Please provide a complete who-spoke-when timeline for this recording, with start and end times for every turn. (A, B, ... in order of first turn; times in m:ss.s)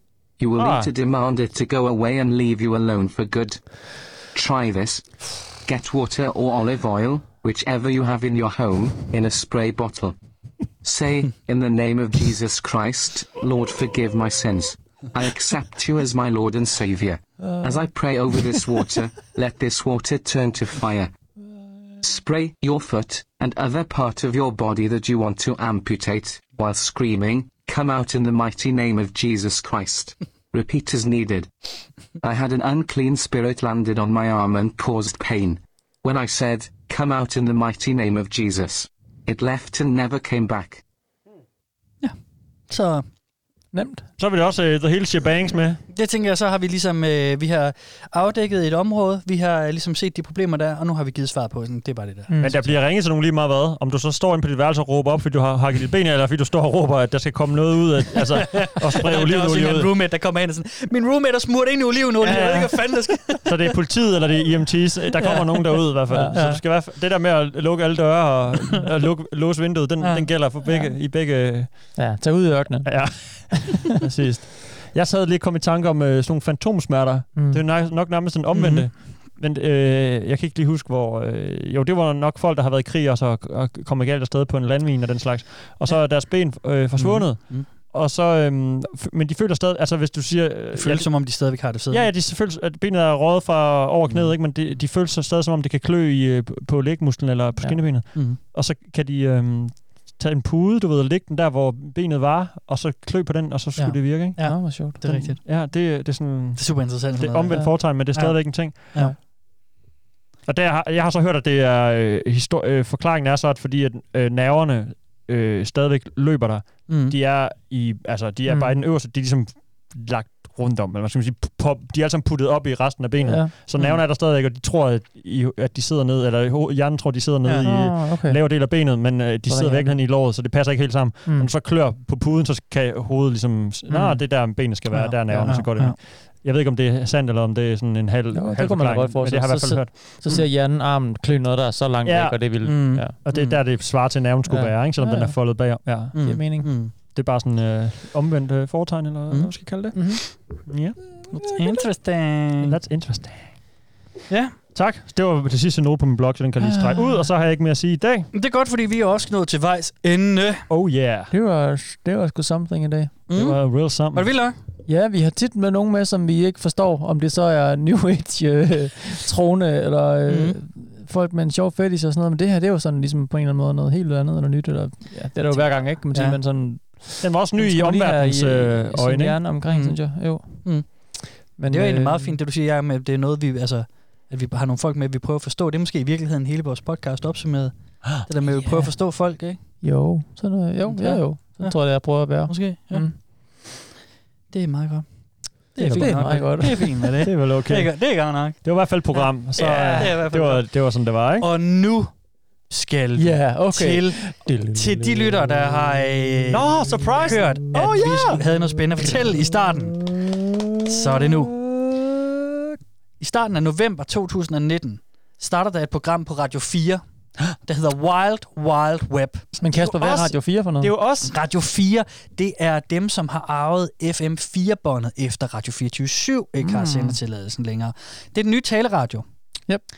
0:00.4-0:03.7 A
0:00.6-0:00.9 B
0:04.3-0:05.0 A
0:05.6-0:10.2 A
0:10.8-0:21.1 A
0:17.4-0:17.7 C
0:22.0-0:31.5 A
0:32.2-0:40.8 A
0:42.7-0:43.0 D
0:43.7-0:44.1 C
0:44.2-0:45.8 B
0:45.9-0:52.3 D
0:52.3-0:52.6 C
0:52.4-0:59.9 B
0:58.3-1:03.8 D
1:02.2-1:12.0 B
1:05.2-1:06.6 D
1:06.1-1:06.4 C
1:10.0-1:10.3 D
1:10.6-1:10.9 C
1:12.0-1:13.7 C
1:12.8-1:31.4 B
1:17.4-1:17.6 C
1:18.5-1:19.0 D
1:25.8-1:27.7 D
1:30.7-1:32.1 D
1:31.9-1:49.0 B
1:38.1-1:38.4 D
1:43.8-1:45.8 D
1:44.4-1:45.2 C
1:46.5-1:49.2 D
1:50.5-2:20.4 B
1:56.9-1:57.1 D
1:58.5-1:58.7 C
2:03.2-2:03.5 C
2:03.7-2:04.0 D
2:07.4-2:07.8 D
2:07.6-2:08.4 C
2:09.5-2:10.0 C
2:11.2-2:11.5 C
2:13.9-2:14.2 C
2:14.9-2:16.0 D
2:15.0-2:15.6 C
2:18.3-2:23.2 C
2:22.0-2:22.6 B
2:22.6-2:23.6 D
2:23.2-2:26.4 B
2:24.5-2:26.7 C
2:26.1-2:26.9 D
2:27.0-2:31.2 B
2:29.3-2:30.0 D
2:29.9-2:30.4 C
2:31.5-2:32.8 D
2:32.6-2:33.8 B
2:34.3-2:34.6 D
2:34.7-2:38.3 B
2:36.6-2:37.3 C
2:38.3-2:40.7 D
2:40.7-2:41.3 B
2:41.3-2:43.2 C
2:43.3-2:44.6 D
2:43.3-2:44.4 B
2:44.8-3:02.4 C
2:50.3-2:50.6 D
2:55.5-2:56.4 D
2:57.2-2:59.5 B
2:59.6-3:09.6 D
3:08.5-3:09.0 C
3:09.8-3:13.2 C
3:10.8-3:13.6 D
3:14.5-3:30.0 D
3:15.8-3:21.5 B
3:15.9-3:17.1 C
3:23.2-3:25.1 C
3:26.5-3:28.4 B
3:30.8-3:31.5 D
3:31.7-3:32.0 B
3:33.2-3:39.5 D
3:39.6-3:40.9 C
3:39.7-3:41.3 B
3:41.2-3:49.2 D
3:46.6-3:47.2 C